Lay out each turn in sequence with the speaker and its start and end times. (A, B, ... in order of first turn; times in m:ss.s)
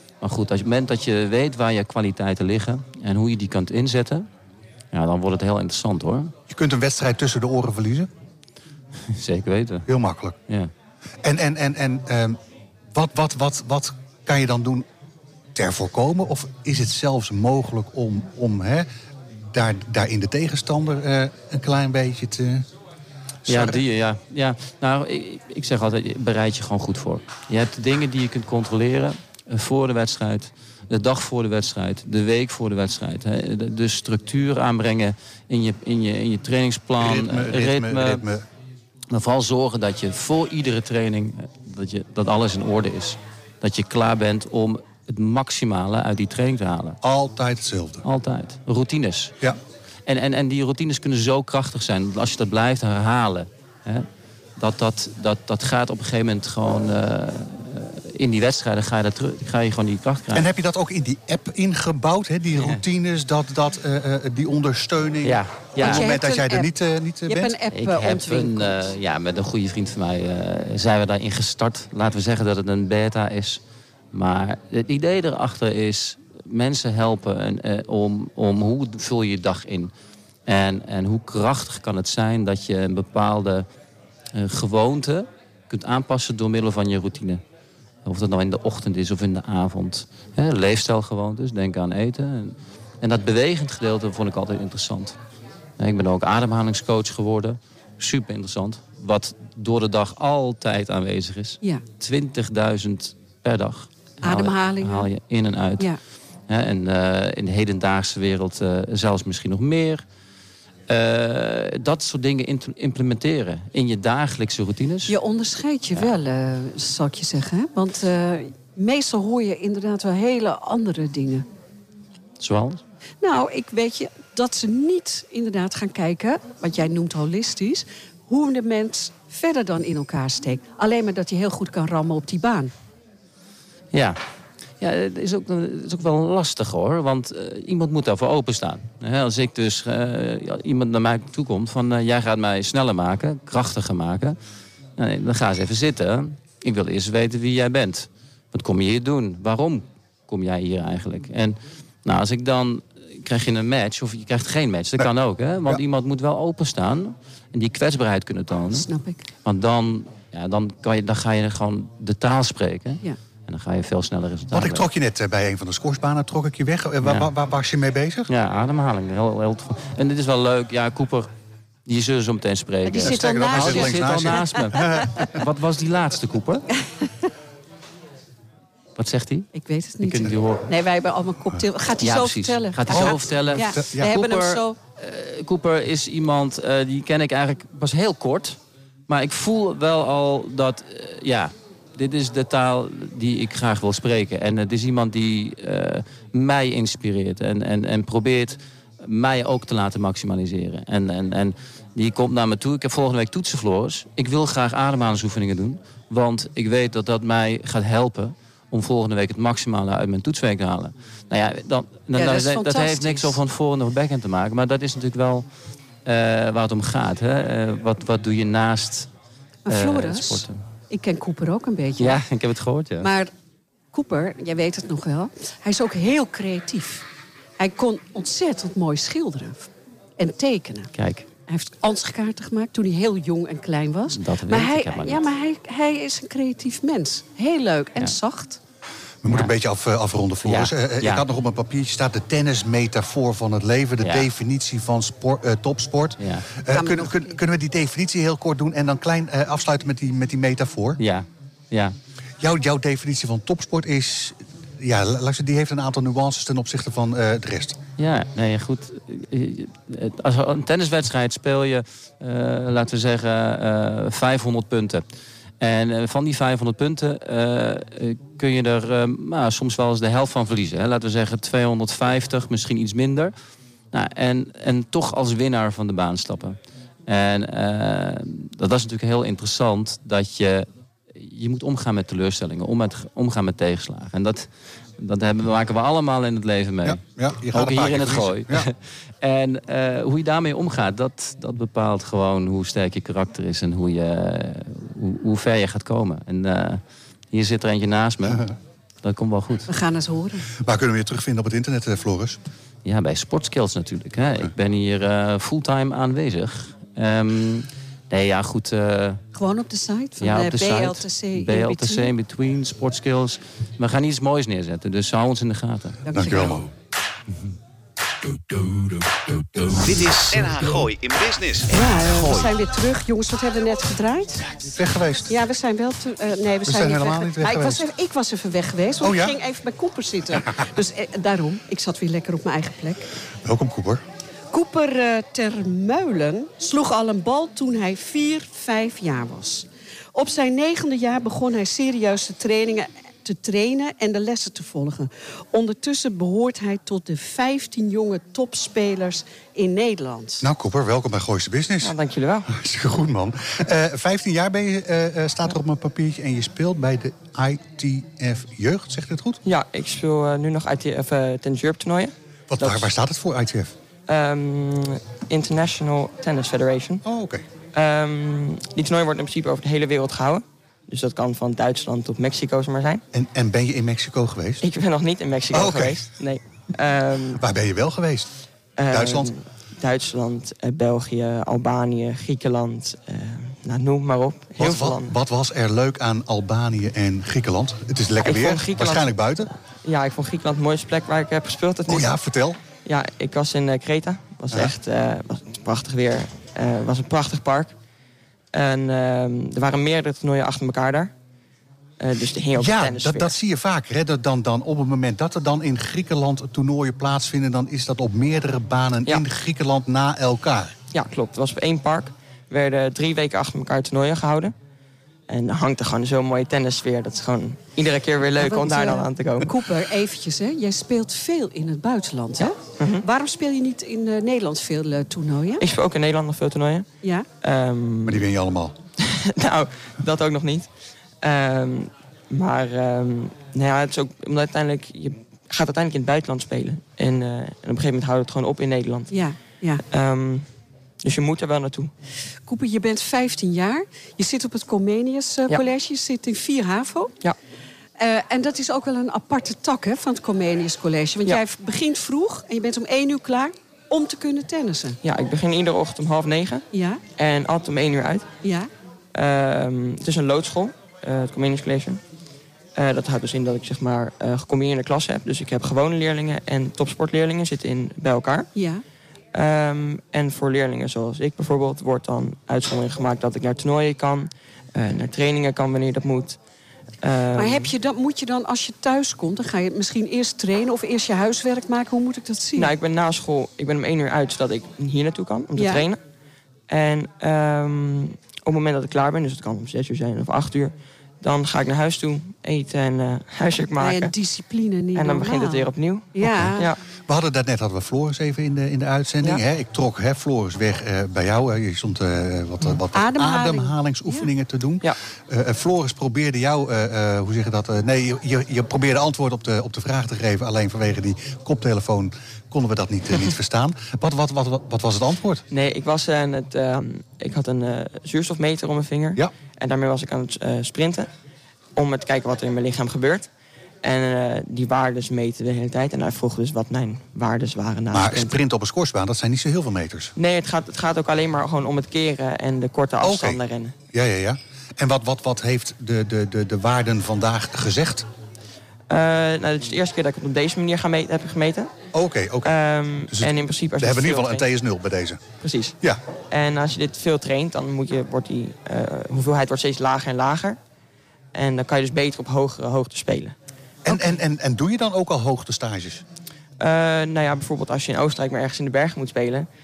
0:00.2-0:04.3 A
0:04.9-0:06.3 A
0:06.5-0:08.1 B
0:09.1-0:09.9 A
0:09.9-0:10.4 B
0:11.2-0:12.4 B
0:12.9-0:14.8 B
0:15.5-0:18.9 B
0:19.5-0:22.6 B
0:23.4-0:23.8 B
0:23.5-0:38.2 A
0:37.0-0:38.4 B
0:39.1-0:47.0 A
0:47.0-0:48.0 B
0:48.0-0:49.3 A
0:50.0-0:54.1 A
0:54.6-1:00.5 A
1:00.3-1:07.6 B
1:02.6-1:02.8 A
1:05.2-1:06.1 A
1:05.8-1:06.7 C
1:07.2-1:08.9 C
1:07.7-1:13.6 A
1:14.1-1:19.9 A
1:20.5-1:23.6 A
1:24.3-1:27.4 A
1:28.0-1:35.2 A
1:35.8-1:45.9 A
1:44.2-1:45.1 C
1:46.5-1:50.0 A
1:50.9-1:55.2 A
1:55.1-2:01.4 C
2:02.4-2:02.8 A
2:03.2-2:12.7 C
2:13.9-2:14.2 A
2:14.8-2:24.4 A
2:25.0-2:38.9 A
2:38.7-2:39.2 C
2:39.4-2:44.9 A
2:44.5-2:48.3 B
2:47.0-2:47.3 A
2:48.3-2:51.3 A
2:51.8-2:56.6 A
2:52.8-2:55.3 C
2:53.0-2:55.4 B
2:59.0-2:59.5 A
2:59.5-3:04.8 C
3:00.0-3:00.7 A
3:02.0-3:35.4 A
3:02.9-3:04.2 B
3:32.1-3:33.4 C
3:36.0-3:39.1 A
3:39.6-3:42.2 C
3:39.7-3:40.6 A
3:42.0-3:43.1 A
3:43.0-3:43.3 C
3:43.9-3:47.0 C
3:47.6-3:50.9 C
3:50.9-3:51.3 A
3:51.5-3:58.6 C
3:54.1-3:55.3 A
3:59.2-4:11.0 B
3:59.3-3:59.5 A
4:00.4-4:01.2 A
4:04.0-4:04.3 A
4:06.2-4:06.4 A
4:06.7-4:07.3 C
4:11.0-4:11.9 A
4:12.4-4:17.8 B
4:18.0-4:25.1 A
4:25.6-4:33.3 A
4:33.9-4:58.5 A
4:46.8-4:48.7 B
4:59.0-4:59.7 A
4:59.7-5:00.5 C
5:00.6-5:02.4 B
5:02.8-5:09.2 A
5:09.3-5:12.1 C
5:10.2-5:16.0 A
5:16.0-5:16.6 C
5:16.1-5:16.7 B
5:19.7-5:22.5 D
5:21.7-5:24.5 C
5:24.7-5:25.4 B
5:25.3-5:33.1 C
5:26.6-5:27.8 B
5:29.0-5:29.3 B
5:33.4-5:34.0 B
5:34.5-5:50.5 C
5:50.4-5:51.9 B
5:51.8-5:52.5 E
5:52.5-5:59.4 B
5:59.4-6:02.9 E
6:02.5-6:03.7 B
6:04.1-6:07.0 E
6:07.0-6:07.4 B
6:07.7-6:13.0 E
6:13.1-6:14.6 B
6:14.6-6:17.4 E
6:15.5-6:16.1 B
6:17.4-6:18.3 B
6:18.8-6:25.2 E
6:18.9-6:19.3 B
6:24.6-6:29.5 B
6:28.2-6:32.1 E
6:31.9-6:32.6 B
6:32.8-6:37.8 E
6:38.5-6:41.1 E
6:42.0-6:43.4 E
6:42.6-6:50.7 B
6:50.9-6:54.5 E
6:55.3-6:59.6 E
6:58.4-7:05.6 C
7:02.4-7:03.0 E
7:05.6-7:06.9 E
7:07.0-7:07.3 C
7:07.4-7:08.2 E
7:08.0-7:08.7 B
7:09.0-7:10.7 E
7:11.2-7:19.1 E
7:19.1-7:19.8 C
7:19.9-7:20.5 E
7:21.0-7:21.9 E
7:22.5-7:27.1 C
7:28.0-7:35.0 C
7:35.0-7:38.3 E
7:36.7-7:37.0 C
7:38.4-7:38.7 C
7:39.1-7:42.0 E
7:42.7-7:48.5 E
7:48.5-7:48.8 C
7:49.3-7:56.4 E
7:57.0-7:57.7 E
7:57.3-8:02.7 C
8:02.5-8:06.0 E
8:05.5-8:05.8 C
8:06.7-8:14.1 E
8:13.8-8:16.7 C
8:14.9-8:16.8 E
8:16.2-8:35.4 B
8:22.9-8:24.3 C
8:35.5-8:41.1 E
8:41.8-8:43.3 E
8:43.8-8:48.4 E
8:47.9-8:50.1 B
8:50.2-8:53.8 E
8:53.0-8:53.4 B
8:53.9-8:58.0 B
8:58.9-9:01.7 E
9:01.9-9:02.6 B
9:02.4-9:04.5 E
9:03.1-9:05.2 B
9:05.4-9:05.8 E
9:06.3-9:10.6 E
9:11.3-9:13.3 E
9:13.8-9:16.0 B
9:16.6-9:19.5 E